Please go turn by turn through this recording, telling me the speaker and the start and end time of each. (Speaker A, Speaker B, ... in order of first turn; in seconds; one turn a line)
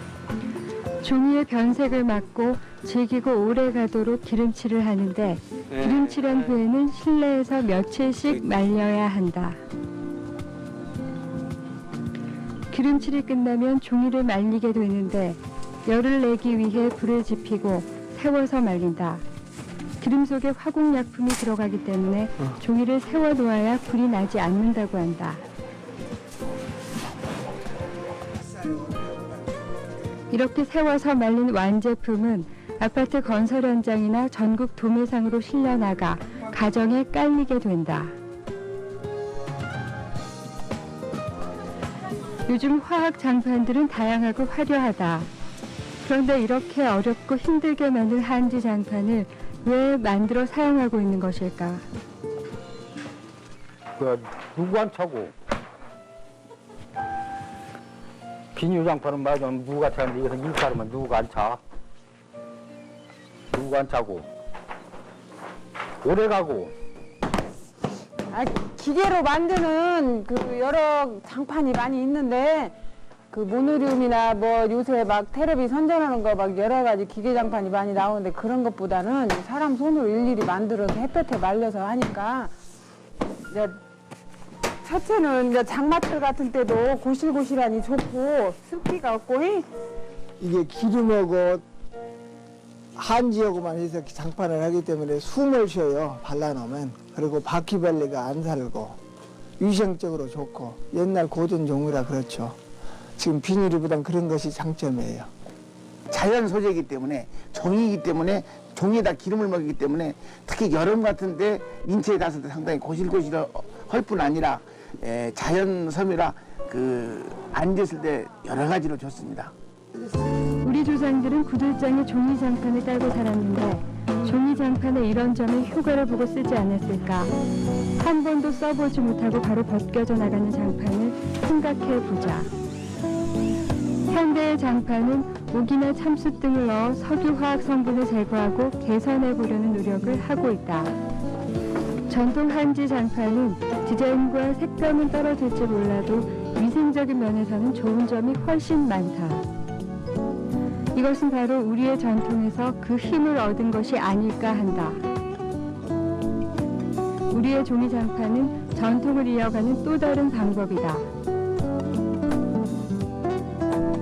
Speaker A: 1.0-9.6
Speaker A: 12.7-19.2
Speaker A: 20.0-25.4
Speaker B: 28.4-29.6
Speaker A: 30.3-38.1
Speaker A: 42.5-45.3
Speaker A: 46.0-51.9
Speaker C: 54.0-55.3
Speaker C: 58.5-61.6
Speaker C: 63.5-64.3
Speaker C: 66.0-66.7
Speaker D: 68.3-72.8
Speaker D: 73.3-82.5
Speaker D: 83.5-83.8
Speaker D: 84.8-89.7
Speaker B: 90.4-91.6
Speaker B: 93.0-99.0
Speaker B: 99.6-102.6
Speaker B: 103.2-105.3
Speaker E: 106.1-119.5
Speaker A: 120.6-127.3
Speaker A: 128.0-132.5
Speaker A: 134.1-140.9
Speaker A: 142.1-149.4
Speaker A: 150.9-155.0
Speaker A: 157.3-161.1